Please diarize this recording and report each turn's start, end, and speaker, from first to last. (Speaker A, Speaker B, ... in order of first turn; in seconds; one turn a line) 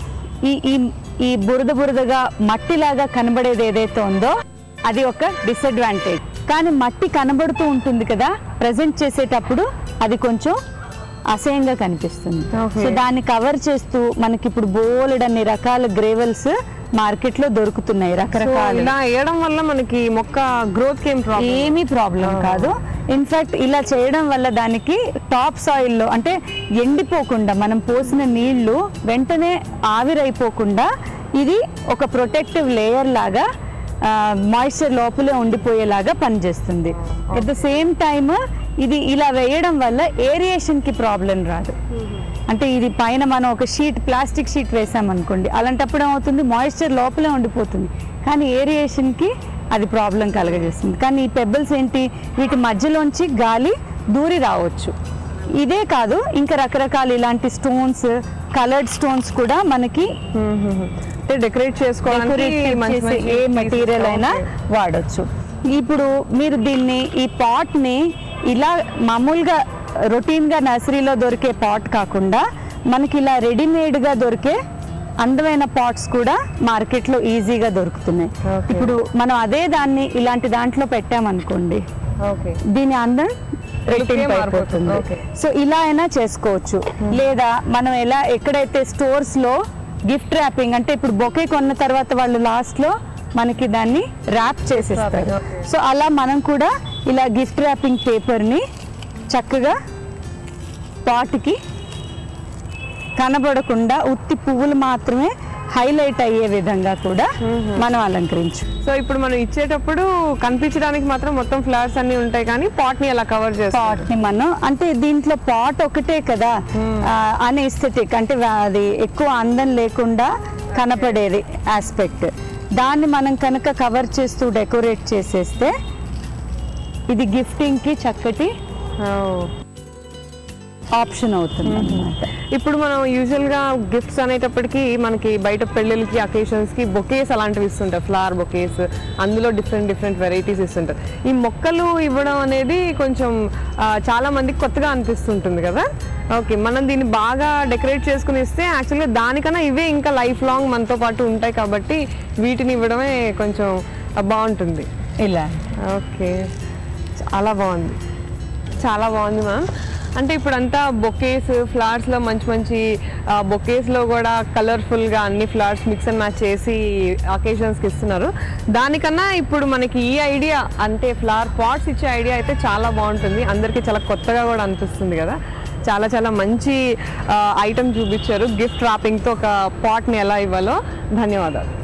Speaker A: 0.4-10.6
Speaker A: 11.3-18.9
Speaker B: 12.5-13.0
Speaker B: 18.3-22.7
Speaker A: 21.4-33.5
Speaker A: 34.0-41.8
Speaker B: 37.1-37.5
Speaker A: 42.5-55.0
Speaker A: 55.6-60.2
Speaker B: 60.3-64.5
Speaker A: 62.1-74.6
Speaker A: 75.2-81.8
Speaker B: 78.5-79.0
Speaker B: 82.2-82.6
Speaker A: 82.7-83.4
Speaker A: 83.9-98.6
Speaker B: 83.9-85.2
Speaker B: 94.7-95.6
Speaker A: 99.3-99.8
Speaker A: 101.0-101.6
Speaker A: 103.2-108.7
Speaker B: 107.4-107.9
Speaker B: 108.8-114.1
Speaker A: 113.7-125.7
Speaker B: 116.7-117.1
Speaker B: 120.8-121.2
Speaker A: 127.1-128.5
Speaker B: 129.0-129.5
Speaker A: 131.0-132.3
Speaker B: 131.7-154.9
Speaker A: 155.2-155.6
Speaker B: 155.8-156.4
Speaker B: 157.2-158.0
Speaker B: 158.8-181.7